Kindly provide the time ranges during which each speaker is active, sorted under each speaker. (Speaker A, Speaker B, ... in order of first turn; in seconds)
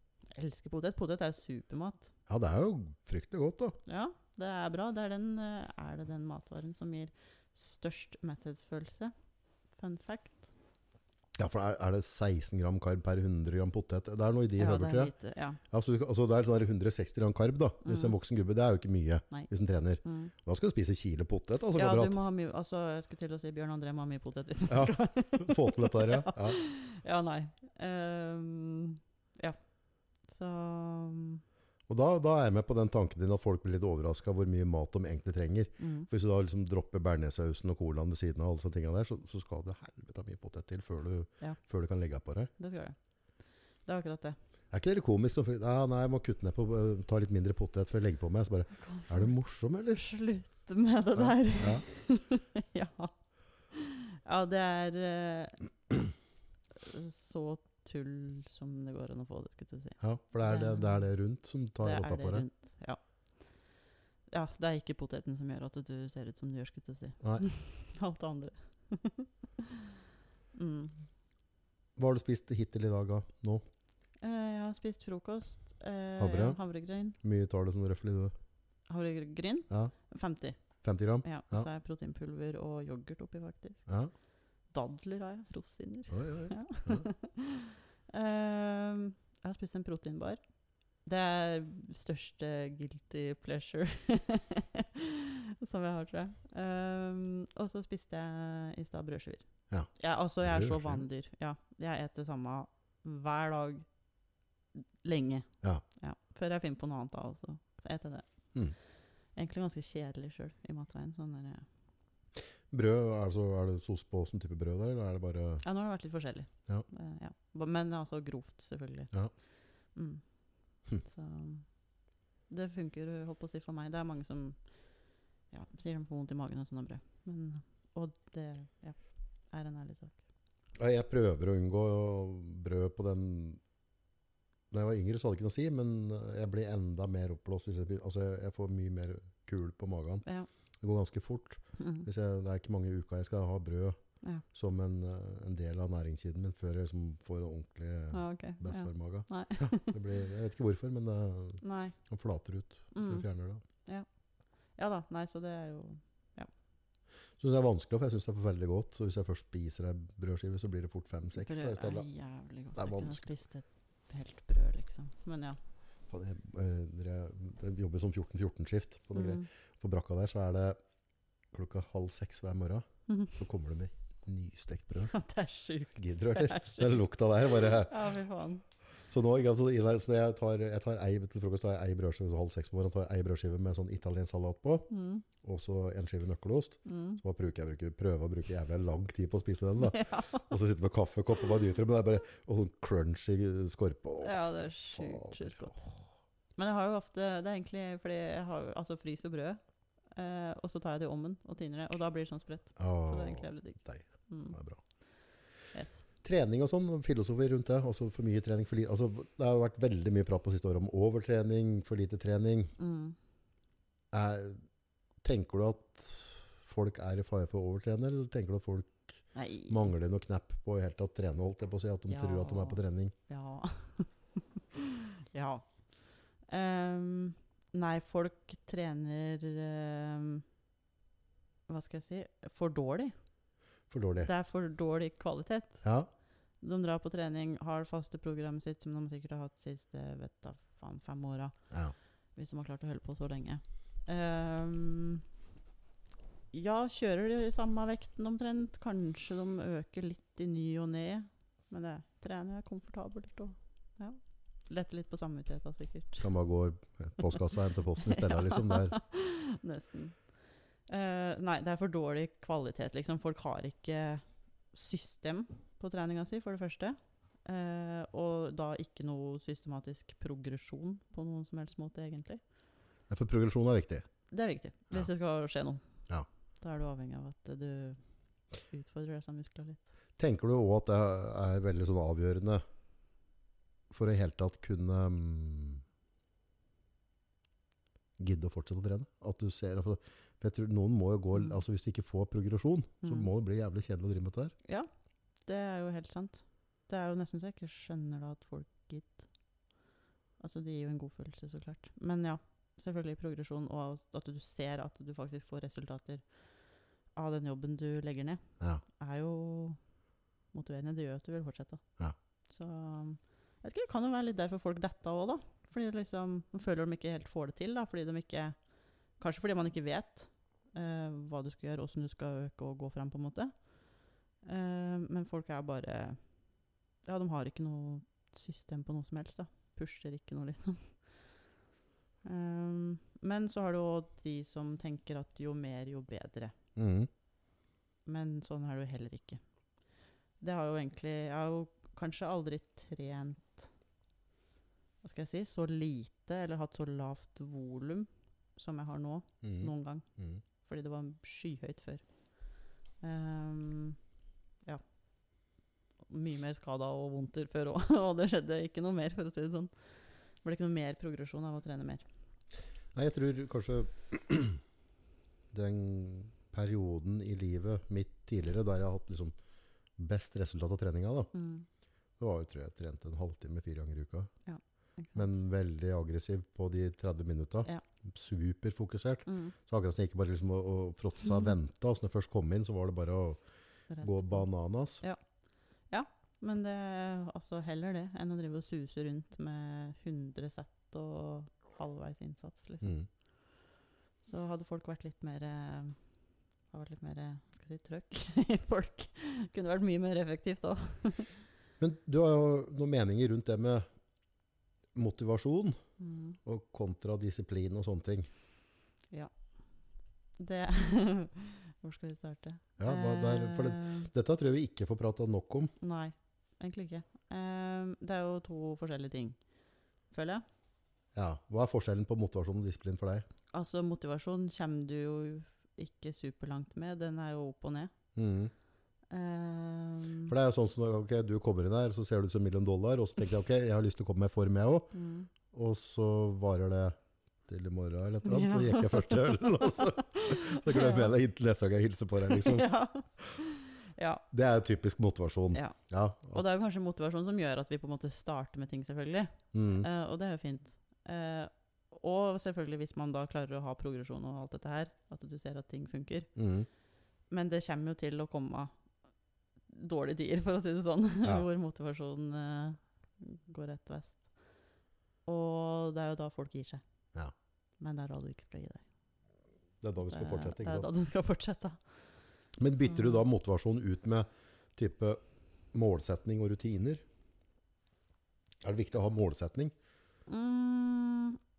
Speaker A: 0.3-2.1, 3.9-9.1, 9.7-10.5, 14.6-15.6, 17.8-18.1, 20.0-20.3, 21.7-29.6, 30.3-31.4, 35.8-36.1, 42.6-42.9, 43.9-44.4, 48.8-49.3, 49.9-53.1, 53.7-55.6, 56.8-61.1, 61.8-63.0, 64.3-69.9, 70.5-71.0, 74.2-77.2, 78.9-80.6, 81.2-83.8, 84.7-90.4, 91.0-103.8, 105.0-108.2, 109.3-111.7, 115.6-119.1, 119.9-120.2, 121.0-121.7, 122.5-124.6, 125.5-129.0, 129.5-130.2, 141.8-142.1, 148.1-150.0, 151.6-152.0, 152.9-153.2, 154.8-156.5, 161.3-165.6, 169.1-169.5, 173.1-173.3, 175.1-178.6, 184.9-185.2, 186.8-187.2, 189.8-190.5, 194.2-196.0, 196.6-199.6, 200.1-204.6, 205.7-206.0, 212.8-213.2, 219.3-219.9, 222.1-225.7, 226.5-230.4, 231.7-233.1, 234.2-235.8, 236.6-241.5, 242.3-245.2, 246.5-256.3, 258.0-260.2, 260.9-272.4, 274.3-275.8, 276.6-278.0, 278.6-279.9, 291.3-291.6, 293.0-293.3, 295.4-299.2, 300.4-306.3, 307.1-309.8, 310.5-311.8, 312.5-318.6, 319.2-323.7, 324.4-326.2, 327.0-331.0, 332.2-336.5, 338.1-339.4, 340.4-343.7, 345.0-350.0, 350.6-352.0, 353.0-354.0, 356.1-359.7, 360.4-362.0, 371.3-371.6, 374.4-375.3, 379.3-379.5, 383.9-384.5, 385.9-392.9, 394.2-396.0, 396.7-401.3, 406.0-406.4, 410.4-414.1, 415.8-419.4, 420.1-420.4, 423.5-427.9, 429.1-430.3, 434.9-435.3, 438.2-441.1, 442.3-444.2, 446.3-456.3, 457.3-458.7, 459.7-464.3, 465.2-466.8, 467.8-468.8, 470.0-471.8, 472.8-473.2, 480.3-481.4
Speaker B: 2.3-3.8, 11.3-15.1, 15.7-22.2, 24.7-26.6, 31.9-42.5, 44.7-50.0, 51.1-51.8, 60.0-62.4, 72.0-73.6, 76.2-76.6, 77.2-78.3, 80.8-81.7, 86.1-87.1, 100.4-101.0, 112.7-115.6, 130.8-133.6, 134.7-140.2, 140.8-144.0, 144.5-153.6, 157.4-162.1, 162.8-163.2, 166.1-170.8, 171.5-175.1, 176.0-177.9, 179.1-184.9, 185.4-195.8, 202.8-204.8, 206.2-212.7, 214.1-214.6, 215.2-223.1, 233.9-234.3, 235.8-236.1, 256.2-258.9, 273.1-274.0, 280.2-282.6, 283.9-285.8, 288.2-294.5, 336.8-337.1, 349.4-350.4, 362.9-364.6, 365.5-369.3, 370.0-371.3, 372.2-374.3, 375.1-383.4, 384.0-385.0, 401.8-403.8, 404.9-405.8, 406.4-408.3, 412.8-415.7, 421.1-423.2, 428.1-428.5, 430.3-434.9, 435.5-436.9, 437.5-442.7, 444.3-446.4, 449.5-449.9, 456.4-456.7, 469.8-470.9, 472.6-475.2, 475.7-477.0, 478.6-479.7